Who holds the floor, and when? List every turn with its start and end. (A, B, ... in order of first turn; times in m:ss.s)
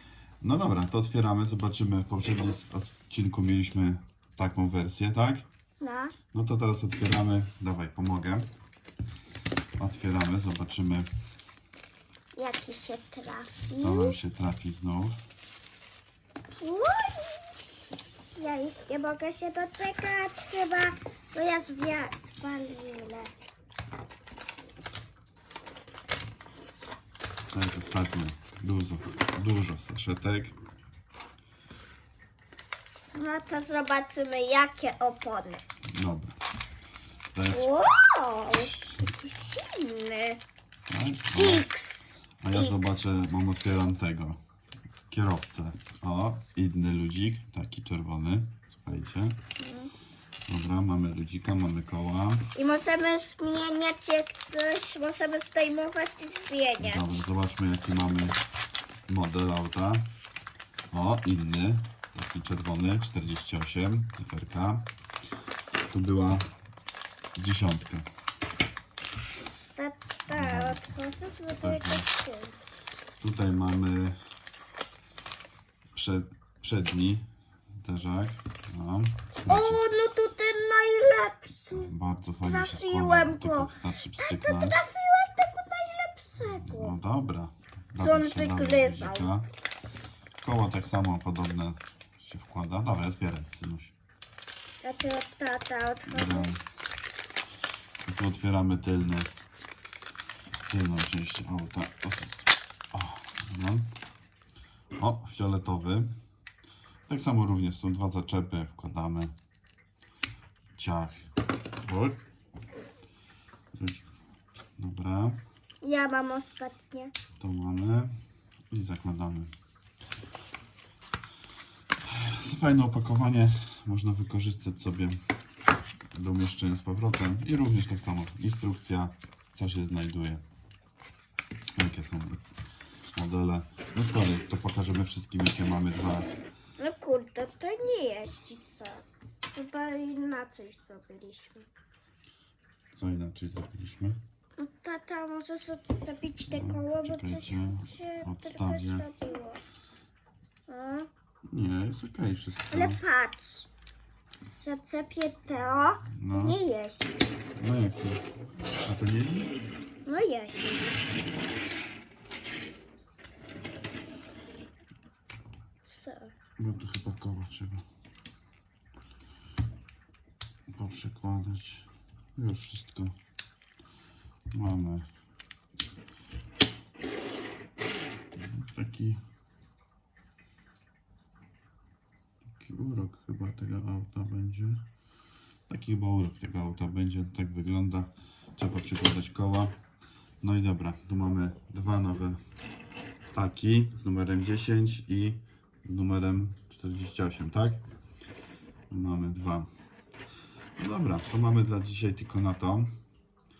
0:00.4-0:05.4 A
0:05.8-0:06.1 B
0:06.3-0:08.5 A
0:09.8-0:11.1 A
0:12.4-0:14.2 B
0:13.7-0:15.2 A
0:16.6-0:23.3 B
0:27.5-0:30.6 A
0:33.1-0:35.6 B
0:35.9-0:36.4 A
0:37.3-0:37.7 A
0:37.5-0:40.4 B
0:40.9-0:41.7 A
0:41.4-0:42.9 B
0:42.4-0:44.4 A
0:45.1-0:49.4 A
0:49.6-0:49.9 B
0:50.5-0:52.5 A
0:52.5-0:57.2 B
0:56.8-0:58.4 A
0:59.1-1:00.1 A
1:00.9-1:04.9 A
1:05.9-1:06.5 A
1:07.4-1:08.0 A
1:09.8-1:12.6 B
1:10.3-1:10.8 A
1:11.6-1:12.1 A
1:13.2-1:14.2 A
1:15.9-1:19.8 A
1:19.5-1:21.9 B
1:21.7-1:24.8 A
1:22.4-1:27.0 B
1:26.4-1:29.5 A
1:28.0-1:29.3 B
1:30.4-1:33.9 A
1:34.8-1:36.6 B
1:36.1-1:36.6 A
1:38.0-1:39.3 A
1:40.7-1:43.9 A
1:44.9-1:46.1 A
1:47.1-1:49.3 A
1:50.7-1:52.2 A
1:53.7-1:54.2 A
1:54.8-1:55.4 A
1:55.8-1:57.1 B
1:57.4-1:58.1 A
1:58.7-1:59.5 A
2:02.0-2:05.2 A
2:06.1-2:10.4 A
2:11.7-2:12.4 A
2:13.1-2:16.3 A
2:16.8-2:21.7 B
2:22.9-2:24.2 A
2:24.6-2:29.6 B
2:26.4-2:29.0 A
2:30.7-2:31.1 B
2:31.5-2:33.0 A
2:32.7-2:33.7 B
2:34.6-2:37.1 B
2:36.1-2:36.6 A
2:37.6-2:38.2 A
2:38.8-2:39.5 A
2:40.0-2:40.9 B
2:45.8-2:46.3 B
2:46.6-2:47.8 A
2:50.7-2:53.1 A
2:54.5-2:55.1 A
2:58.4-2:59.2 A
3:02.6-3:04.8 A
3:05.7-3:09.7 A
3:10.4-3:12.4 A
3:13.3-3:17.8 A
3:18.9-3:19.7 A
3:20.8-3:22.9 A